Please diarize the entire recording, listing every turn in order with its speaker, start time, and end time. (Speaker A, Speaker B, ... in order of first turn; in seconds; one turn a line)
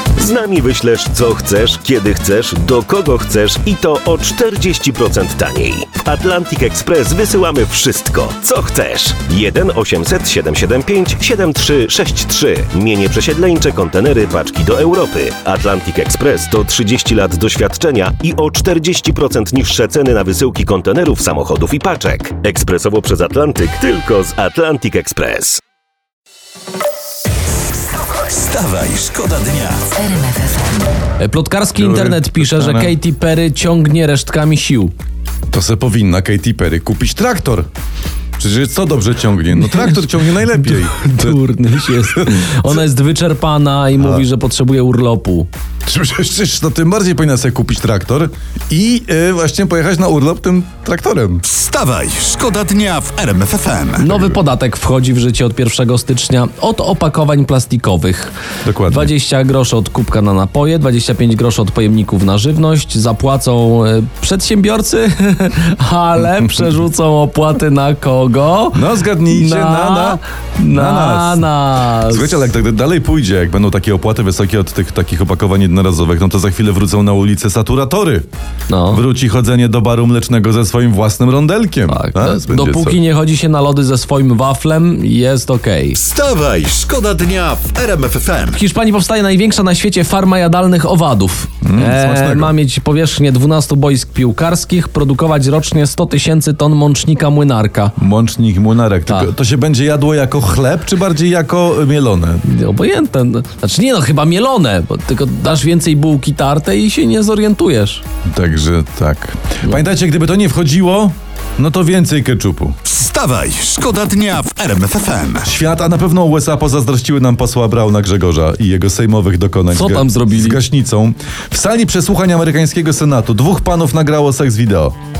Speaker A: 0.1-25.6
Speaker B: 28.2-30.1
Speaker A: 30.1-30.9
Speaker C: 31.2-34.9
Speaker D: 31.8-32.9
Speaker D: 35.5-37.7
Speaker D: 38.4-41.4
Speaker C: 39.7-45.5
Speaker D: 42.1-42.5
Speaker D: 45.9-51.4
Speaker B: 51.5-54.3
Speaker C: 54.0-58.3
Speaker D: 58.6-59.1
Speaker C: 58.9-72.5
Speaker D: 68.7-71.5
Speaker D: 72.1-78.2
Speaker C: 78.7-79.0
Speaker D: 78.9-83.0
Speaker C: 81.9-86.0
Speaker B: 86.0-88.6
Speaker C: 88.5-97.9
Speaker D: 91.6-92.5
Speaker D: 98.0-102.4
Speaker C: 102.4-108.0
Speaker D: 108.3-112.8
Speaker B: 112.9-115.5
Speaker D: 115.4-125.0
Speaker C: 119.7-120.6